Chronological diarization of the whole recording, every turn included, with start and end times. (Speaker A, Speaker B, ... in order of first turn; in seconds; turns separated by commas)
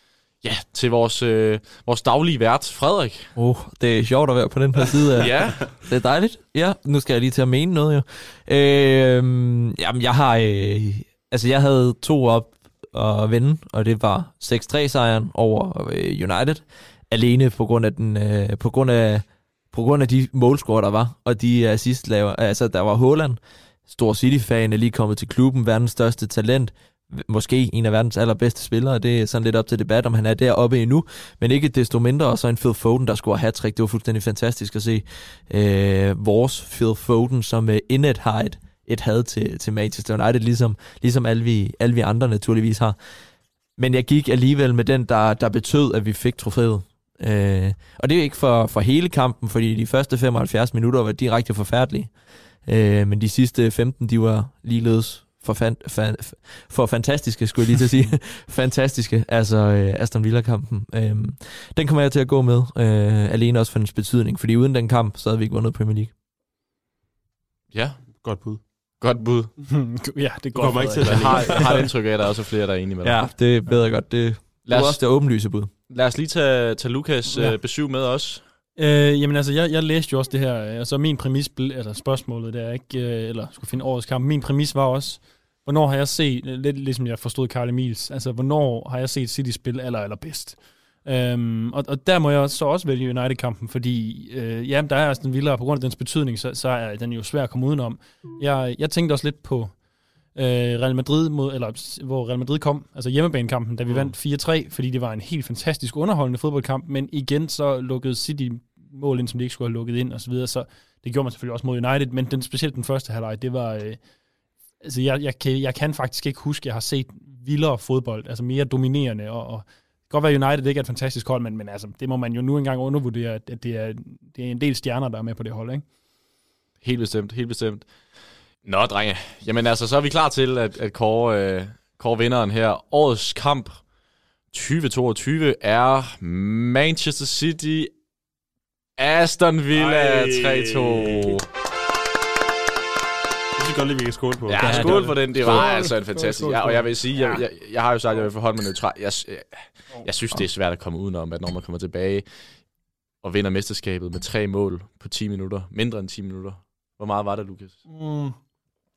Speaker A: 0.4-3.3, Speaker B: 3.4-43.0, Speaker A: 5.2-5.7, Speaker B: 43.8-66.1, Speaker A: 67.7-69.5, Speaker C: 68.1-68.6, Speaker D: 69.6-71.8, Speaker C: 70.5-71.9, Speaker A: 71.0-73.4, Speaker B: 73.0-75.7, Speaker A: 74.7-78.4, Speaker D: 77.3-77.6, Speaker D: 78.8-114.0, Speaker D: 114.8-125.8, Speaker A: 126.8-127.9, Speaker A: 128.6-133.8, Speaker A: 134.5-137.9, Speaker A: 139.0-141.4, Speaker C: 139.7-141.4, Speaker C: 143.6-145.1, Speaker A: 144.5-152.7, Speaker D: 144.6-147.4, Speaker B: 144.9-145.6, Speaker A: 153.2-157.8, Speaker D: 157.9-158.4